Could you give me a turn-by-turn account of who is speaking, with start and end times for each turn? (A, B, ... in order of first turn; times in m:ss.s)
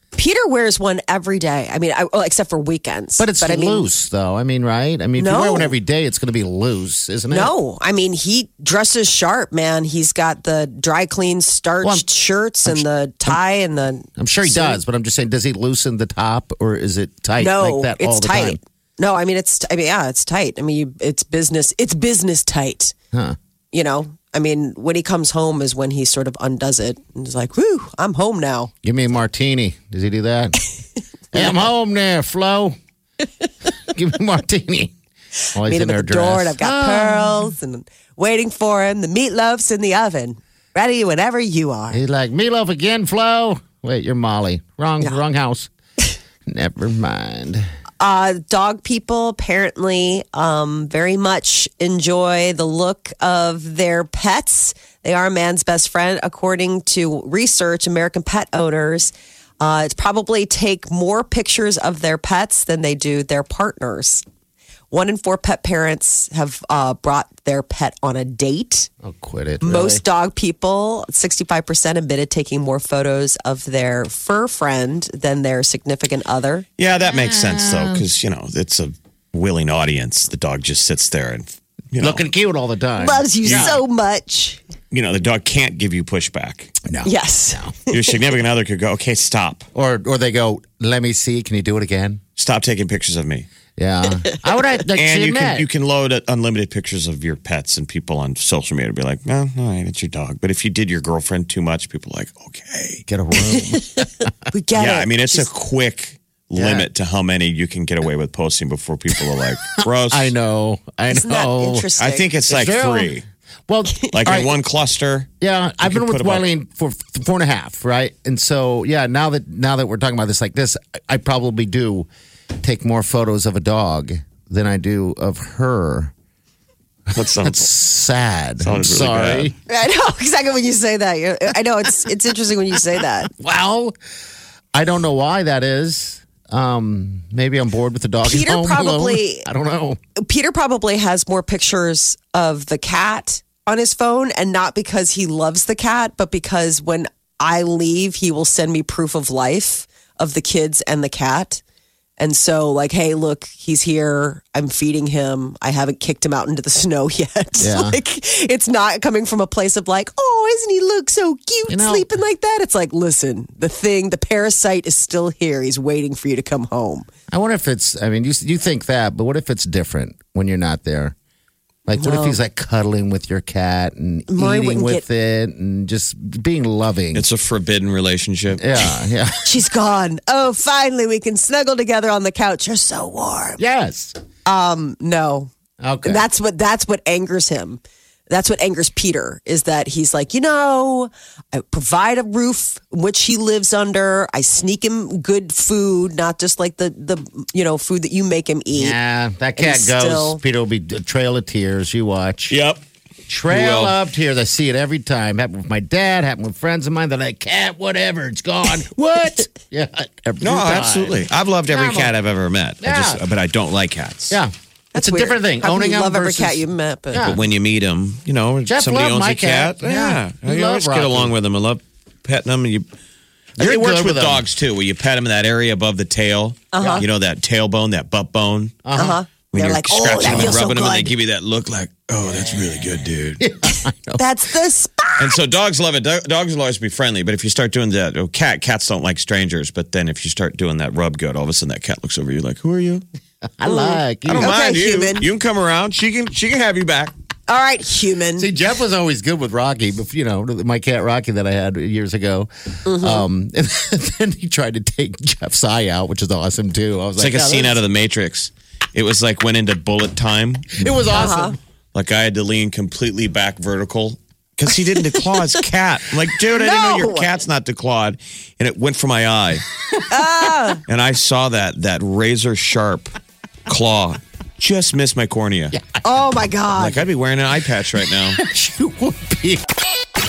0:00.1-0:03.9 A
0:03.2-0:07.5 B
0:05.2-0:05.7 A
0:07.3-0:14.8 A
0:11.8-0:12.1 B
0:12.6-0:13.4 B
0:14.2-0:18.6 B
0:17.4-0:22.9 A
0:23.7-0:28.7 A
0:28.8-0:30.6 B
0:31.3-0:32.8 B
0:33.9-0:34.9 B
0:35.5-0:37.5 B
0:35.6-0:42.0 A
0:41.9-0:45.7 B
0:46.4-0:47.6 B
0:48.0-1:04.2 A
1:04.9-1:08.9 A
1:09.0-1:10.0 B
1:09.6-1:16.6 A
1:16.8-1:22.2 C
1:17.1-1:18.0 B
1:22.0-1:23.8 B
1:23.0-1:24.6 A
1:23.4-1:23.7 C
1:24.9-1:26.8 C
1:26.8-1:27.7 B
1:27.0-1:27.9 A
1:27.9-1:29.7 C
1:29.7-1:32.2 B
1:32.4-1:33.5 C
1:33.8-1:35.7 B
1:34.9-1:43.0 C
1:43.1-1:44.3 B
1:43.5-1:45.5 A
1:44.7-1:50.3 C
1:46.6-1:46.9 B
1:50.1-1:51.9 B
1:51.1-1:52.3 A
1:52.0-1:53.2 C
1:52.5-1:53.1 B
1:53.7-1:54.5 B
1:54.1-1:55.3 C
1:55.4-2:02.1 B
1:55.8-1:56.4 C
2:02.6-2:06.1 B
2:07.1-2:09.5 B
2:07.1-2:07.7 C
2:08.6-2:09.5 C
2:09.7-2:13.3 A
2:13.3-2:13.9 B
2:14.7-2:20.0 B
2:18.2-2:19.5 A
2:20.2-2:31.6 A
2:32.2-2:47.1 A
2:37.6-2:38.0 B
2:41.7-2:42.1 B
2:47.3-2:51.1 B
2:51.9-2:57.2 B
2:52.0-2:52.4 A
2:54.3-2:55.0 A
2:57.1-2:58.6 C
2:58.5-2:59.4 B
2:59.4-3:03.6 A
3:03.6-3:04.2 B
3:04.4-3:05.5 A
3:05.8-3:06.2 B
3:06.0-3:19.0 A
3:18.7-3:22.6 B
3:19.6-3:20.4 A
3:22.5-3:22.8 C
3:23.3-3:32.1 B
3:23.5-3:23.9 C
3:30.4-3:34.4 C
3:32.8-3:33.2 B
3:34.3-3:37.4 B
3:34.9-3:37.3 A
3:37.2-3:42.9 C
3:38.6-3:41.3 B
3:43.6-3:44.4 B
3:43.6-3:48.8 C
3:46.7-3:47.0 A
3:46.8-3:47.0 B
3:48.8-3:49.2 B
3:48.9-3:51.1 A
3:49.5-3:53.4 C
3:50.2-3:50.6 B
3:53.4-3:54.2 B
3:54.1-3:55.4 A
3:55.2-4:03.0 C
4:03.6-4:04.5 B
4:03.6-4:05.2 A
4:04.2-4:07.1 C
4:07.5-4:08.5 A
4:08.4-4:17.8 B
4:12.8-4:13.2 A
4:17.2-4:20.8 C
4:20.8-4:21.6 B
4:21.1-4:21.6 A
4:21.9-4:29.6 C
4:26.5-4:27.3 A
4:30.1-4:30.8 A
4:30.9-4:33.1 C
4:33.7-4:35.8 C
4:35.7-4:36.0 B
4:36.0-4:37.0 A
4:36.8-4:38.4 C
4:38.4-4:39.6 B